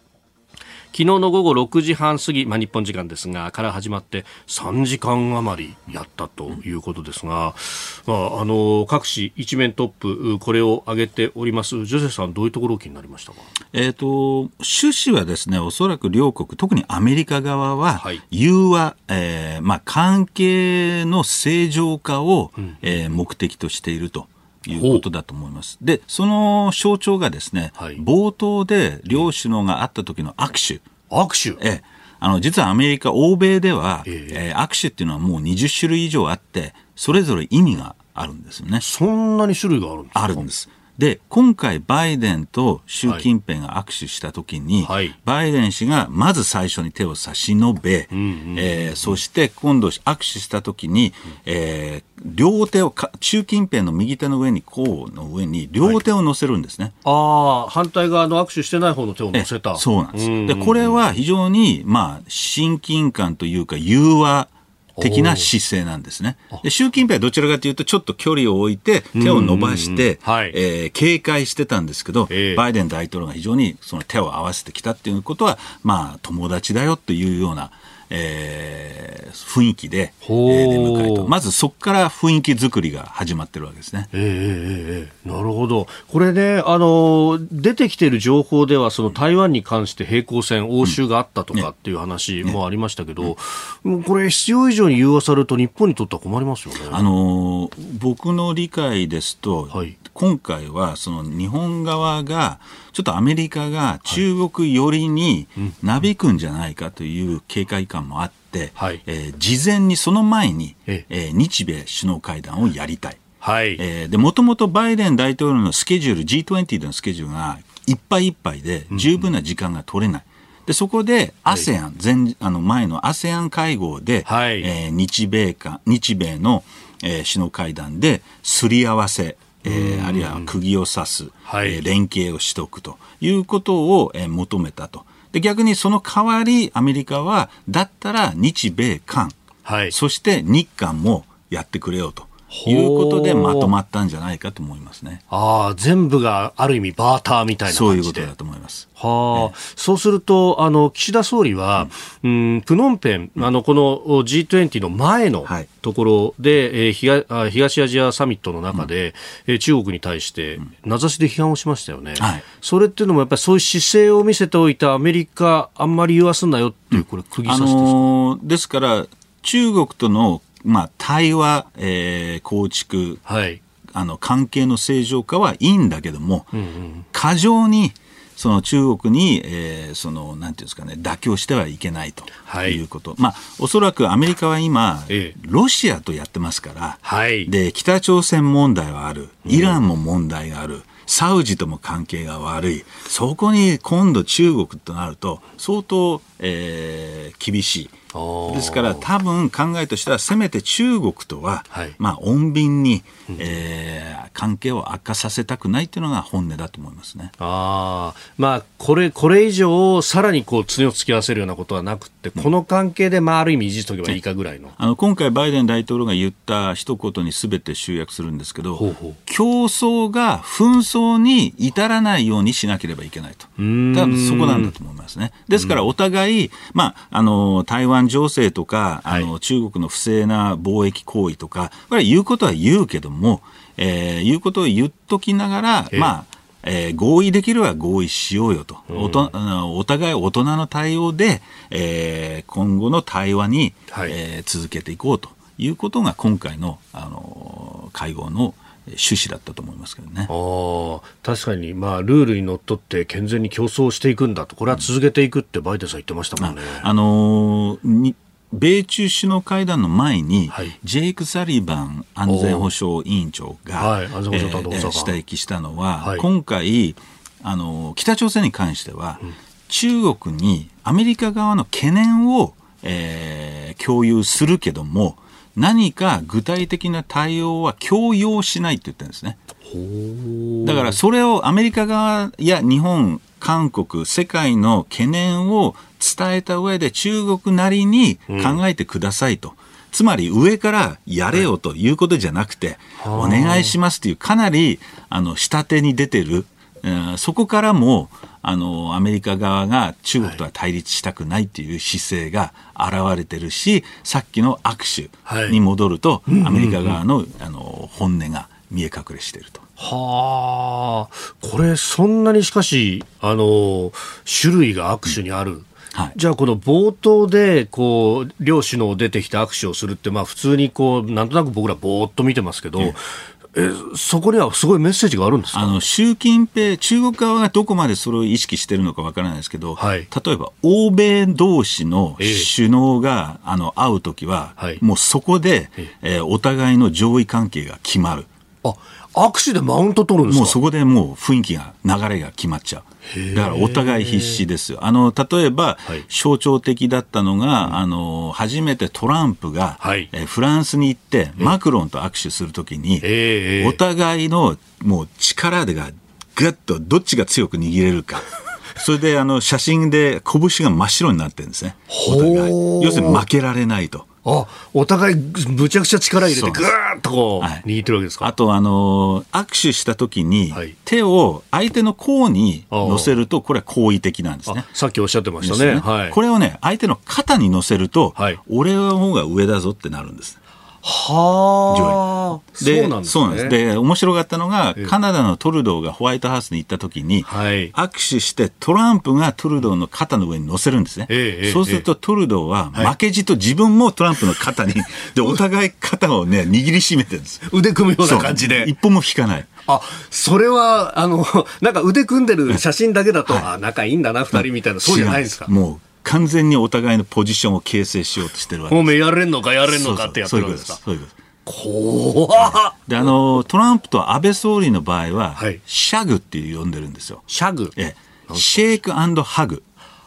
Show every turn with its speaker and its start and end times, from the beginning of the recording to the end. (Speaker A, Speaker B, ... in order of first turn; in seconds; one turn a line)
Speaker A: 0.9-13.5
Speaker B: 13.7-30.9
Speaker A: 17.9-18.2
Speaker A: 24.7-25.1
Speaker A: 31.1-31.6
Speaker B: 31.6-38.9
Speaker A: 34.1-34.4
Speaker A: 38.8-40.5
Speaker B: 40.1-57.0
Speaker A: 44.8-45.1
Speaker A: 48.1-49.2
Speaker A: 57.0-61.0
Speaker B: 59.3-84.1
Speaker A: 65.0-65.5
Speaker A: 69.1-70.6
Speaker A: 72.3-72.6
Speaker A: 80.2-81.3
Speaker A: 84.1-97.0
Speaker B: 96.9-113.2
Speaker A: 113.4-113.8
Speaker B: 113.8-139.4
Speaker A: 124.2-124.7
Speaker A: 129.6-130.5
Speaker A: 131.5-131.8
Speaker A: 139.7-139.9
Speaker B: 139.9-145.2
Speaker A: 142.5-143.7
Speaker A: 145.3-148.3
Speaker B: 147.7-149.5
Speaker A: 149.0-168.0
Speaker B: 162.2-162.4
Speaker B: 167.0-173.2
Speaker A: 173.3-173.6
Speaker B: 173.9-176.6
Speaker A: 176.5-177.1
Speaker B: 177.1-207.3
Speaker A: 182.4-182.8
Speaker A: 185.1-185.3
Speaker A: 187.0-187.5
Speaker A: 189.4-189.8
Speaker A: 198.1-199.1
Speaker A: 207.4-214.8
Speaker B: 214.8-250.3
Speaker A: 218.8-219.2
Speaker A: 223.6-224.8
Speaker A: 238.9-239.3
Speaker A: 243.9-244.2
Speaker A: 250.3-256.9
Speaker B: 256.4-279.4
Speaker A: 262.3-262.7
Speaker A: 263.8-265.2
Speaker A: 266.0-266.3
Speaker A: 279.7-281.0
Speaker B: 280.6-309.7
Speaker A: 288.3-288.6
Speaker A: 293.0-293.8
Speaker A: 305.3-305.6
Speaker A: 306.3-307.0
Speaker A: 309.8-325.8
Speaker B: 325.5-338.3
Speaker A: 329.8-330.1
Speaker A: 332.2-332.5
Speaker A: 338.6-340.6
Speaker B: 340.3-364.1
Speaker A: 343.0-344.4
Speaker A: 349.8-350.1
Speaker A: 353.0-353.8
Speaker A: 361.9-363.2
Speaker A: 364.2-368.3
Speaker B: 366.3-366.7
Speaker B: 367.4-367.6
Speaker B: 368.2-374.7
Speaker A: 372.7-373.1
Speaker A: 374.5-376.2
Speaker B: 375.4-380.4
Speaker A: 380.8-383.6
Speaker B: 381.7-399.5
Speaker A: 387.2-387.7
Speaker A: 391.1-391.9
Speaker A: 397.5-398.7
Speaker A: 399.7-405.5
Speaker B: 404.3-409.0
Speaker A: 408.7-410.8
Speaker B: 409.7-411.2
Speaker A: 411.5-413.1
Speaker B: 412.4-419.6
Speaker A: 415.4-415.6
Speaker A: 417.3-417.7
Speaker A: 418.3-418.7